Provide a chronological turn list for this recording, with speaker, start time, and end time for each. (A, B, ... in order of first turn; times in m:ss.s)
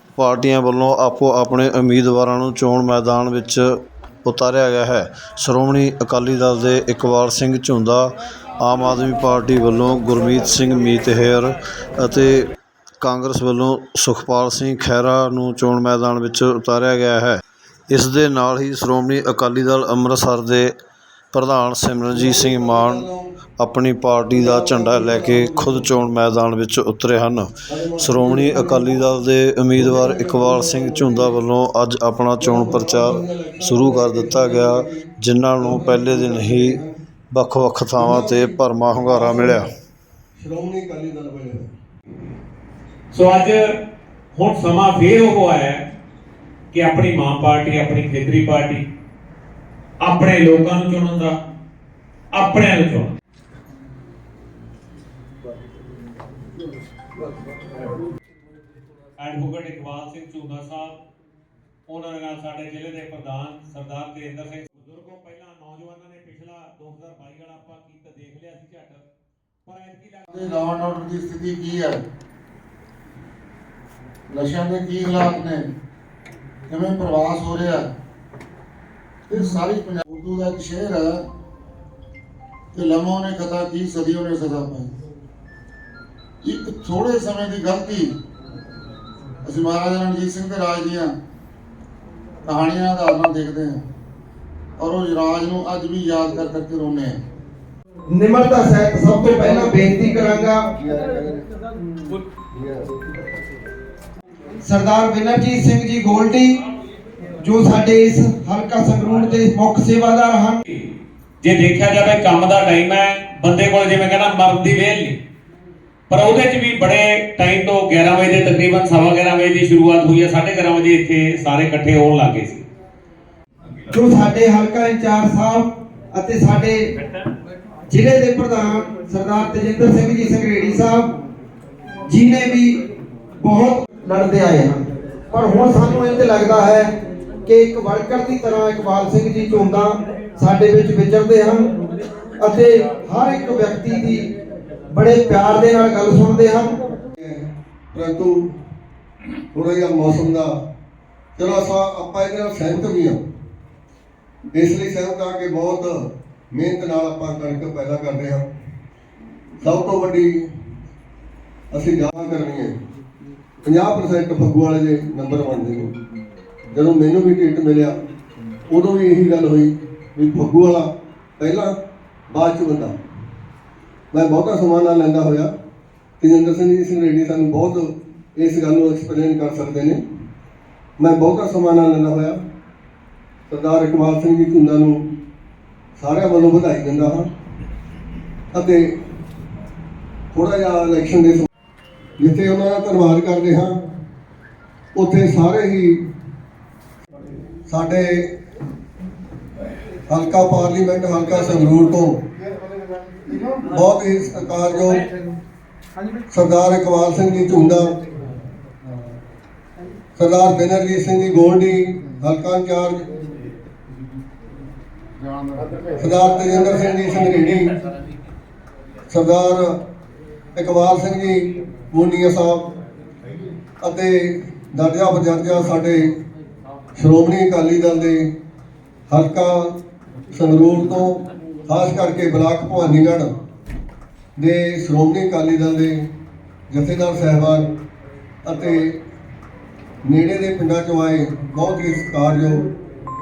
0:00.2-0:03.7 A
0:04.2-0:12.4 A
0:13.0-0:20.7 A
0:21.3-0:23.0 A
0:22.1-0:23.3 B
0:23.6-0:36.8 A
0:24.4-0:25.9 B
0:27.7-0:29.0 B
0:29.8-0:31.4 B
0:32.4-0:37.0 B
0:37.3-0:39.7 A
0:38.0-0:39.7 B
0:40.4-0:41.7 B
0:43.1-0:43.7 C
0:44.3-0:45.8 C
0:46.7-0:48.8 C
0:50.0-0:51.4 C
0:52.3-0:53.1 C
0:59.2-1:01.0 C
1:01.9-1:09.0 C
1:09.6-1:10.3 C
1:10.3-1:12.0 D
1:14.3-1:15.6 D
1:16.7-1:17.9 D
1:19.3-1:21.2 D
1:22.7-1:24.9 D
1:26.4-1:28.1 D
1:29.4-1:31.1 D
1:32.4-1:33.8 D
1:34.8-1:37.2 D
1:38.1-1:40.6 E
1:39.2-1:40.0 B
1:40.7-1:41.4 B
1:42.5-1:42.9 B
1:44.6-1:46.6 E
1:47.4-1:50.6 E
1:51.4-1:55.2 C
1:56.1-2:02.6 C
2:03.9-2:06.9 E
2:07.9-2:11.1 E
2:12.1-2:12.7 E
2:13.4-2:16.9 E
2:17.4-2:21.6 E
2:22.4-2:24.3 E
2:24.9-2:26.8 E
2:27.2-2:28.5 B
2:29.5-2:30.6 B
2:31.4-2:33.2 B
2:34.5-2:38.5 B
2:39.6-2:40.5 B
2:41.7-2:42.7 B
2:43.6-2:45.9 B
2:46.7-2:48.0 B
2:48.7-2:51.7 B
2:52.3-2:53.0 B
2:54.1-2:55.5 B
2:56.2-3:00.0 B
3:01.0-3:02.4 B
3:03.5-3:05.0 B
3:06.0-3:07.3 B
3:08.5-3:08.9 B
3:10.3-3:11.5 B
3:12.2-3:13.8 B
3:14.9-3:16.0 B
3:17.7-3:18.3 B
3:20.1-3:22.2 B
3:23.7-3:25.0 B
3:26.3-3:28.0 B
3:30.2-3:33.1 B
3:36.0-3:37.7 B
3:39.1-3:39.8 B
3:40.5-3:42.7 B
3:43.8-3:46.2 B
3:47.0-3:48.3 B
3:49.1-3:49.8 B
3:50.3-3:53.3 B
3:54.4-3:56.1 B
3:56.7-3:57.7 B
3:58.4-3:59.0 B
4:00.0-4:02.7 B